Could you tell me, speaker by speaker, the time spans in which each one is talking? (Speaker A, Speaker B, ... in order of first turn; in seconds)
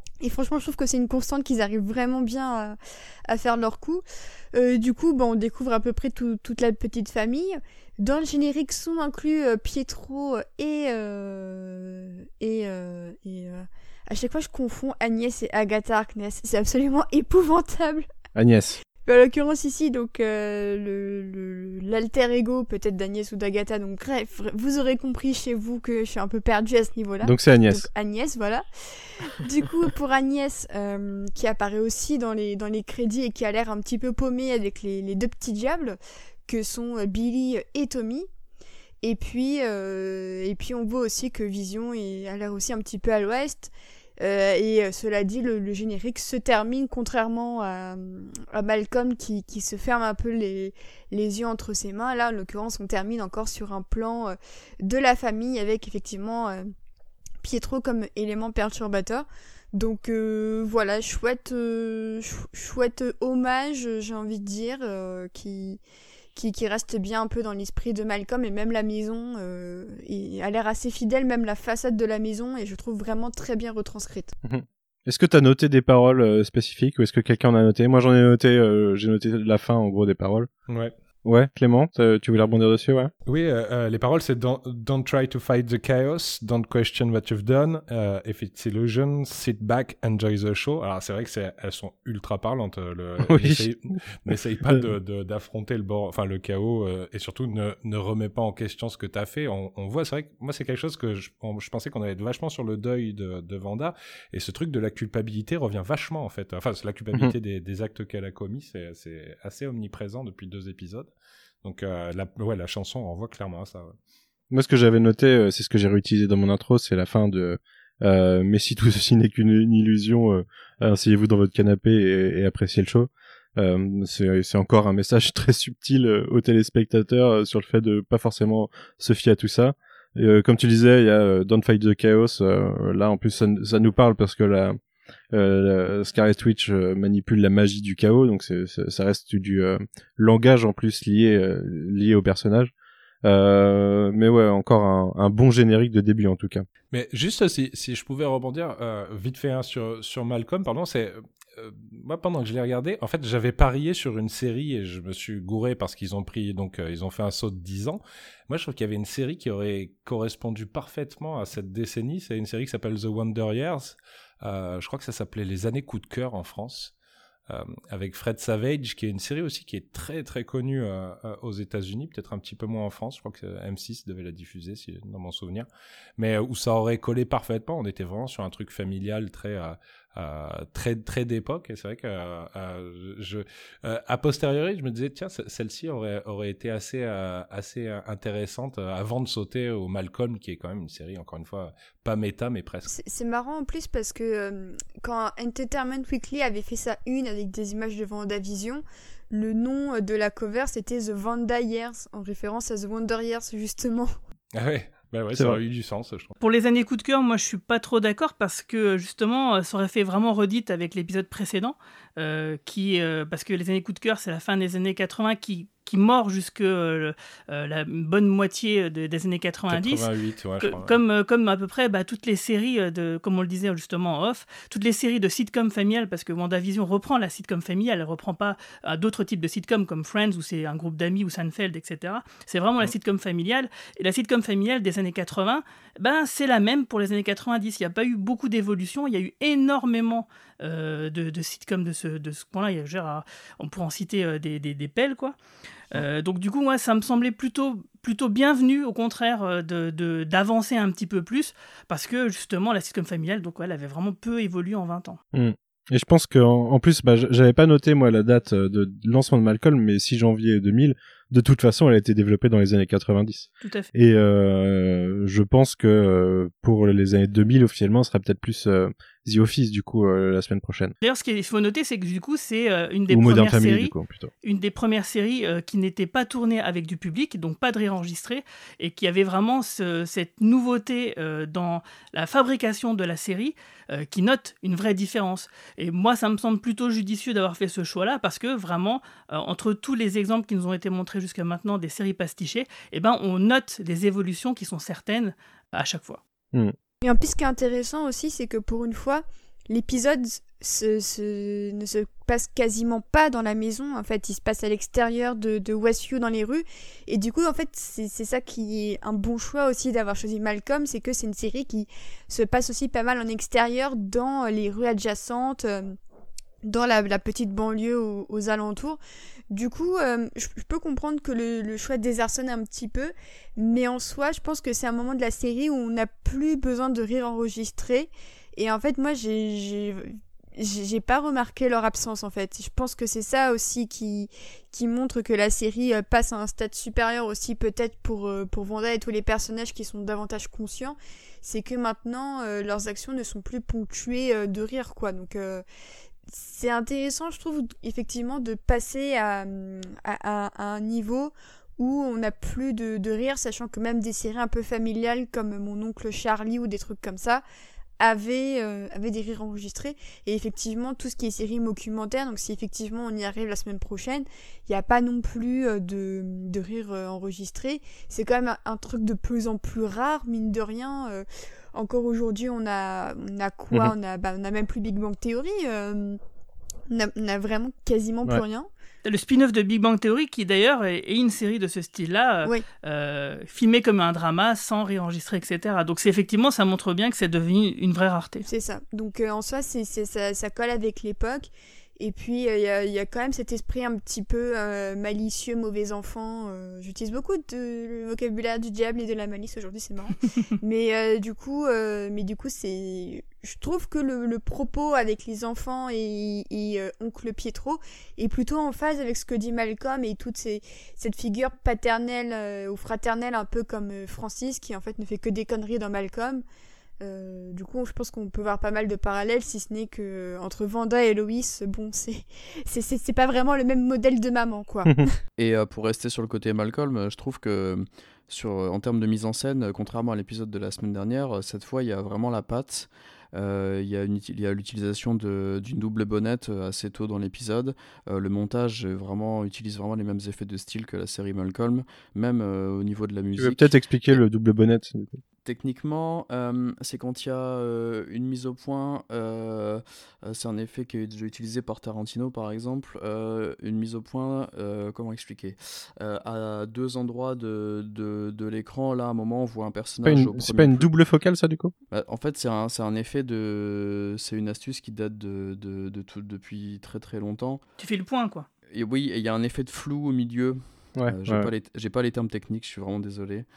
Speaker A: 0.2-18.1, 19.0-38.3, 39.0-56.7, 57.4-65.8, 66.3-74.3, 192.9-204.1, 297.0-315.9, 316.6-319.0, 319.5-345.6, 346.3-357.4, 358.0-376.2, 376.9-378.7, 388.4-416.4, 417.0-425.1
Speaker B: 18.4-18.8, 27.2-27.9, 74.4-80.5, 81.2-83.1, 93.3-93.7, 94.3-94.8, 114.5-134.8, 135.3-142.7, 143.2-146.7, 205.3-205.6, 255.3-270.9, 273.1-274.3, 443.4-445.2, 460.0-461.7, 471.0-471.5
Speaker C: 83.2-111.1, 111.6-113.9, 146.9-166.9, 167.5-175.7, 176.2-192.9, 204.5-206.3, 219.7-221.0
Speaker D: 206.4-245.3, 245.9-255.2, 263.6-263.9, 271.0-296.2, 379.0-388.4, 467.8-468.5
Speaker E: 425.4-444.1, 445.4-460.9, 461.9-467.6, 468.7-473.5